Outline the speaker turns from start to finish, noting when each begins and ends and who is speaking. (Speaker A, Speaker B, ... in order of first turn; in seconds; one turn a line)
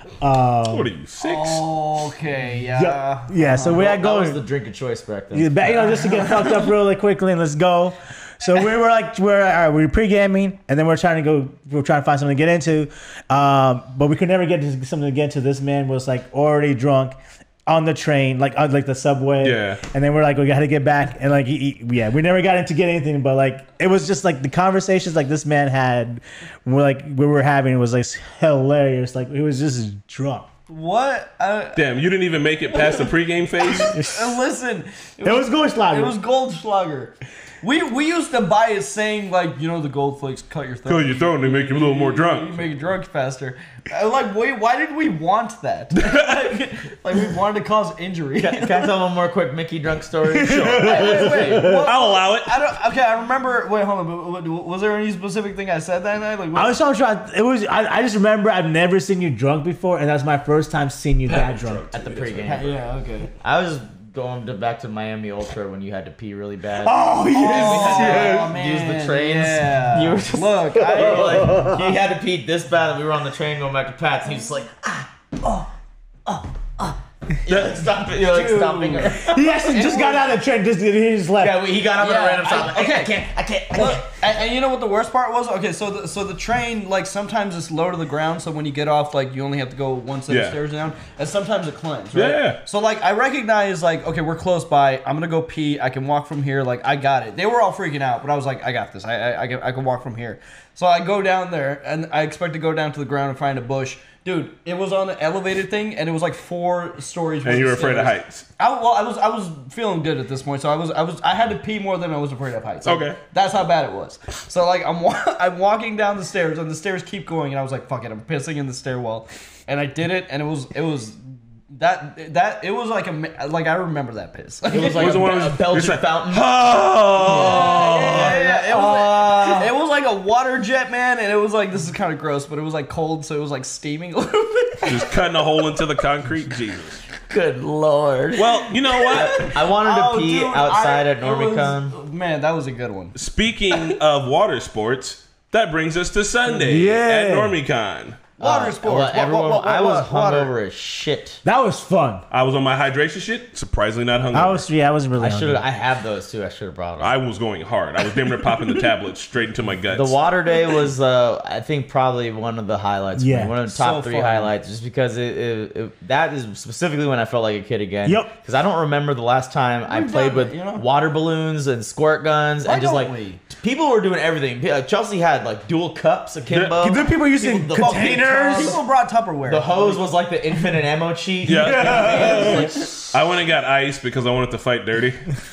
Speaker A: 0.2-0.9
Speaker B: 0.7-1.6
Speaker C: 1.2-3.4
Speaker A: 2.7-4.4
Speaker D: 3.4-5.7
Speaker A: 5.3-30.5
Speaker B: 19.4-19.8
Speaker C: 30.7-31.8
Speaker B: 31.7-34.0
Speaker C: 33.6-48.8
Speaker A: 33.9-34.2
Speaker A: 35.2-36.1
Speaker B: 40.9-42.7
Speaker B: 46.0-46.5
Speaker D: 48.4-51.6
Speaker A: 50.3-51.9
Speaker C: 50.8-56.8
Speaker B: 51.6-52.6
Speaker A: 56.5-61.9
Speaker B: 61.3-62.7
Speaker D: 61.9-62.8
Speaker C: 62.5-63.3
Speaker D: 63.4-75.6
Speaker A: 66.8-68.5
Speaker C: 67.3-71.5
Speaker A: 70.9-71.9
Speaker D: 76.3-79.4
Speaker B: 77.5-77.8
Speaker C: 78.1-80.3
Speaker A: 79.1-81.6
Speaker D: 81.4-84.0
Speaker C: 82.0-83.2
Speaker C: 83.7-125.3
Speaker B: 90.3-90.6
Speaker B: 92.1-92.6
Speaker B: 107.4-108.5
Speaker B: 112.8-113.2
Speaker D: 124.7-126.4
Speaker B: 124.8-128.4
Speaker D: 127.2-129.7
Speaker C: 127.2-135.1
Speaker B: 134.8-137.0
Speaker D: 137.3-141.9
Speaker B: 138.3-139.5
Speaker C: 139.1-143.1
Speaker B: 143.1-148.2
Speaker A: 146.6-147.6
Speaker C: 148.4-150.5
Speaker D: 148.4-151.4
Speaker A: 151.4-152.2
Speaker B: 152.3-154.7
Speaker A: 154.3-155.6
Speaker D: 155.2-157.1
Speaker B: 157.0-160.2
Speaker D: 159.9-178.8
Speaker A: 163.2-163.6
Speaker C: 163.7-164.5
Speaker A: 168.0-168.3
Speaker C: 169.9-170.8
Speaker C: 172.6-173.4
Speaker B: 176.5-176.8
Speaker A: 176.8-178.8
Speaker C: 177.8-180.1
Speaker D: 179.4-183.0
Speaker B: 181.4-185.3
Speaker A: 181.5-182.9
Speaker C: 182.1-182.9